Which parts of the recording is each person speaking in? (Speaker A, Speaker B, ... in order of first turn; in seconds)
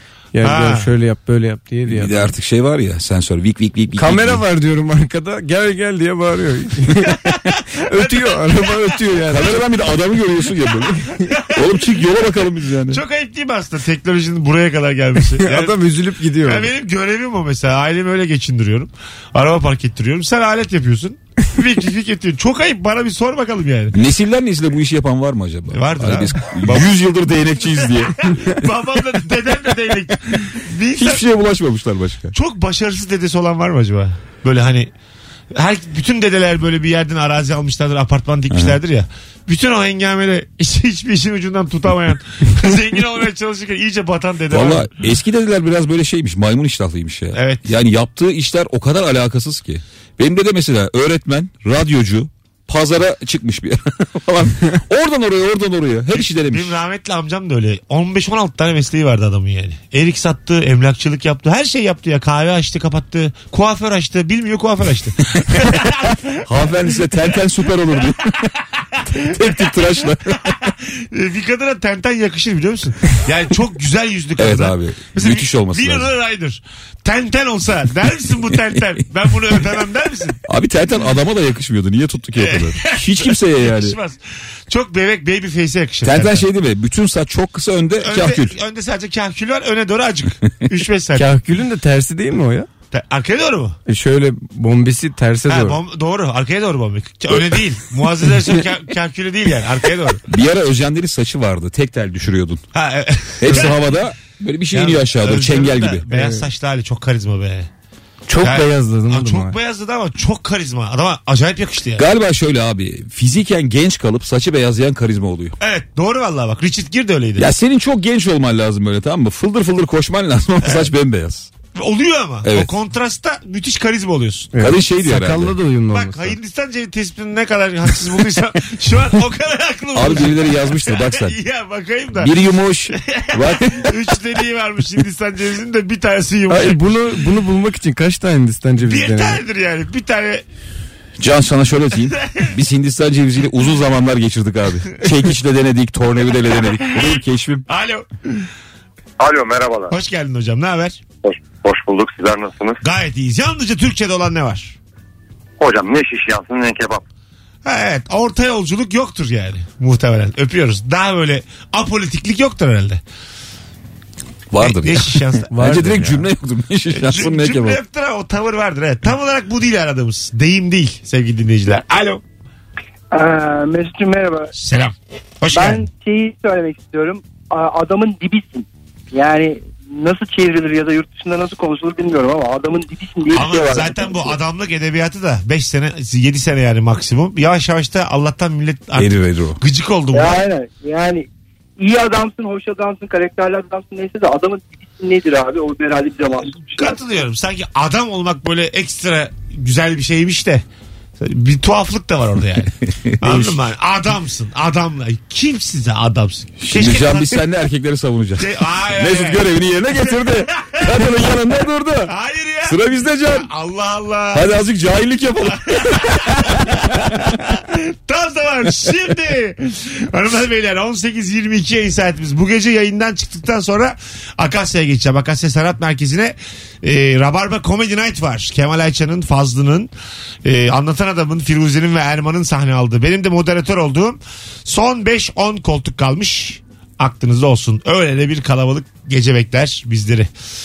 Speaker A: 0.3-2.3, 4.0-9.6, 15.4-16.7, 91.2-92.7, 93.9-95.8, 106.1-106.5, 108.3-109.6, 124.5-126.4, 136.5-139.4, 165.5-166.2
Speaker B: 0.4-0.9, 7.9-8.9, 11.3-11.8, 12.9-15.8, 16.4-24.0, 25.7-26.9, 28.3-31.2, 32.3-34.9, 35.5-44.9, 47.3-47.6, 56.1-66.3, 70.5-80.4, 82.4-86.5, 88.0-91.3, 92.9-93.8, 95.5-100.2, 102.7-103.9, 104.7-107.7, 108.4-112.0, 115.6-117.5, 121.8-124.5, 125.9-132.3, 133.0-136.8, 138.8-140.4, 146.8-147.2, 147.7-148.5, 149.9-151.0, 152.8-154.8, 157.7-163.0, 164.6-166.1, 166.9-172.2, 174.6-175.9, 183.3-190.4, 196.7-200.6, 201.2-207.4, 208.4-211.0, 212.1-214.6, 215.7-229.9, 230.4-240.3
Speaker C: 1.9-4.4, 9.3-13.0, 23.9-28.6, 30.9-32.3, 38.5-38.8, 44.5-56.8, 66.4-68.5, 69.1-70.6, 74.4-76.1, 80.5-84.0, 86.0-88.6, 100.3-102.6, 103.4-106.0, 112.0-115.6, 117.4-121.5, 122.4-122.7, 124.6-125.6, 129.9-131.4, 132.2-133.9, 141.2-147.7, 164.5-167.8, 189.0-189.6, 202.9-203.6, 206.6-212.1, 212.7-213.5, 214.3-217.3
Speaker D: 149.2-150.0, 151.2-152.8, 155.6-157.0
Speaker E: 173.1-174.5, 175.5-184.1, 190.1-191.3, 191.8-196.8